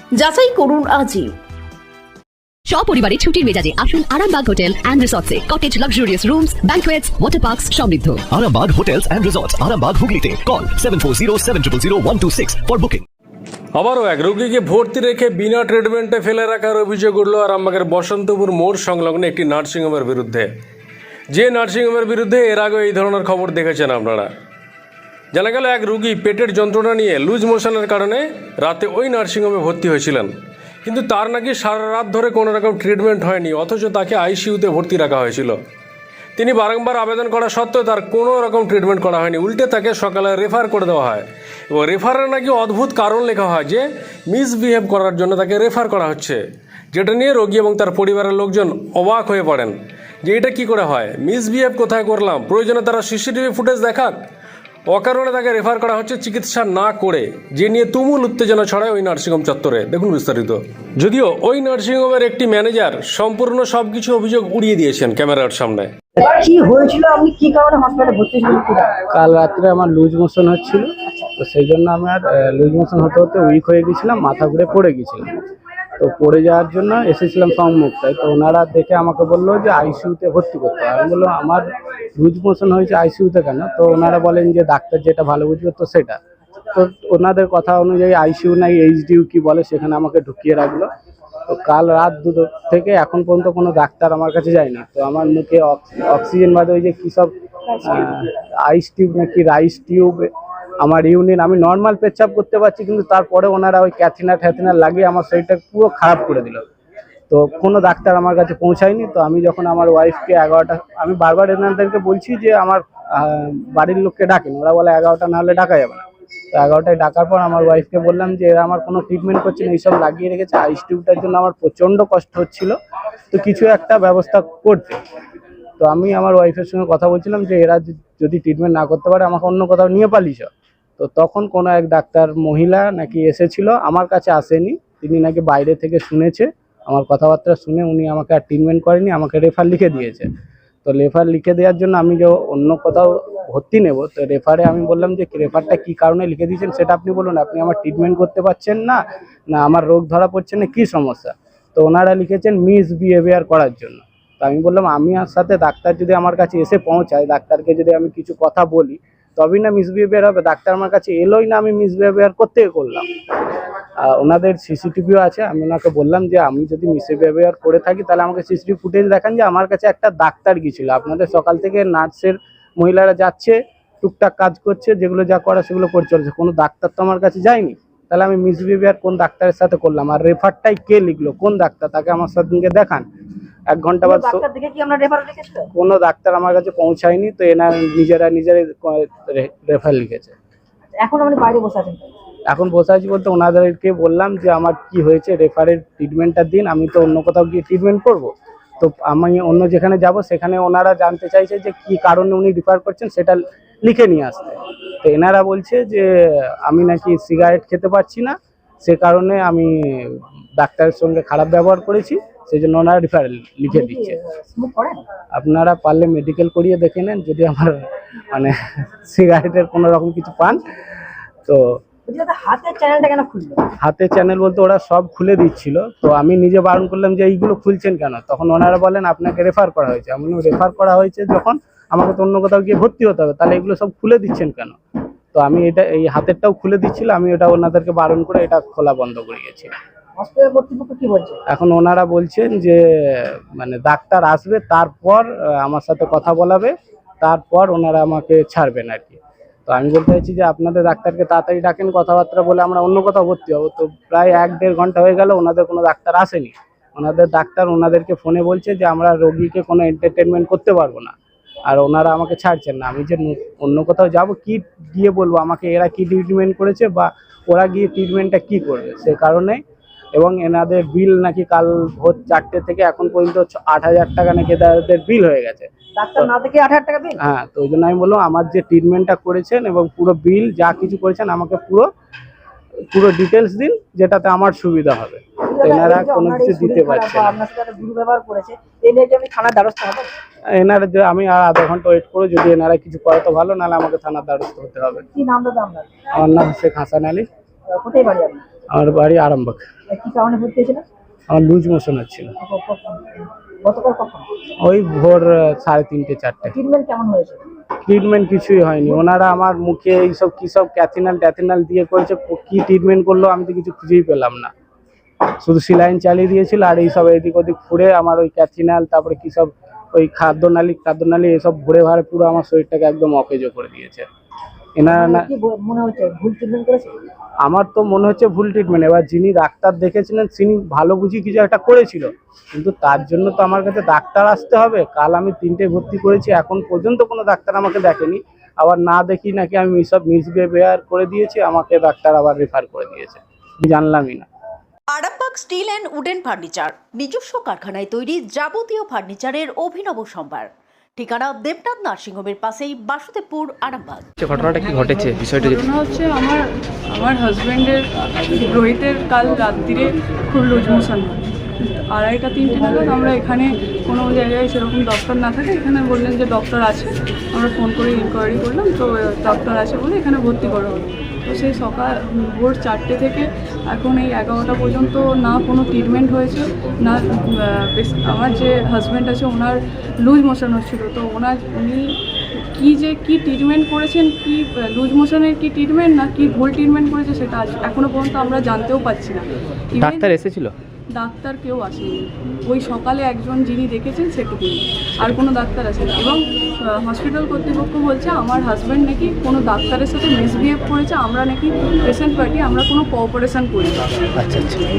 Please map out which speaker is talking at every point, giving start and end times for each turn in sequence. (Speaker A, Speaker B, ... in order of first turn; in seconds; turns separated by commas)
Speaker A: 0.2-0.9, Speaker A: 2.7-8.1, Speaker B: 8.2-13.0, Speaker C: 13.7-20.5, Speaker C: 21.3-24.3, Speaker C: 25.3-30.3, Speaker C: 30.8-35.6, Speaker C: 36.4-46.4, Speaker C: 46.9-54.2, Speaker C: 54.9-65.9, Speaker D: 66.2-68.9, Speaker E: 69.1-70.9, Speaker E: 71.4-75.3, Speaker E: 76.0-81.6, Speaker E: 82.2-86.2, Speaker E: 86.7-90.9, Speaker E: 91.5-97.3, Speaker E: 97.8-100.3, Speaker E: 100.8-106.6, Speaker E: 107.3-122.7, Speaker E: 123.3-125.0, Speaker E: 125.8-140.3, Speaker E: 140.8-163.0, Speaker E: 164.0-183.1, Speaker E: 183.7-184.5, Speaker D: 184.0-185.7, Speaker E: 185.7-190.3, Speaker D: 191.0-192.1, Speaker E: 192.5-214.2, Speaker D: 213.7-215.0, Speaker E: 215.3-220.6, Speaker D: 222.1-223.7, Speaker E: 223.8-234.8, Speaker E: 235.3-239.7, Speaker D: 240.2-241.4, Speaker E: 241.5-261.1, Speaker E: 261.7-269.6, Speaker E: 270.1-275.7, Speaker D: 275.9-277.1, Speaker E: 277.2-281.9, Speaker E: 282.9-287.4, Speaker D: 285.5-290.1, Speaker E: 290.6-295.0, Speaker D: 295.1-295.9, Speaker E: 296.1-297.2, Speaker D: 297.7-298.4, Speaker E: 298.7-299.6, Speaker D: 299.9-300.8, Speaker E: 301.3-302.3, Speaker D: 302.4-304.3, Speaker E: 304.6-306.6, Speaker D: 306.5-307.4, Speaker E: 307.8-314.5, Speaker E: 315.4-324.1, Speaker E: 324.8-325.3, Speaker D: 324.9-326.9, Speaker E: 327.4-344.3, Speaker F: 344.9-354.0, Speaker G: 354.2-355.6, Speaker H: 355.4-357.8, Speaker H: 358.4-361.2, Speaker H: 361.9-381.9, Speaker H: 382.6-390.1, Speaker G: 389.8-390.5, Speaker H: 390.9-403.8, Speaker G: 404.2-404.6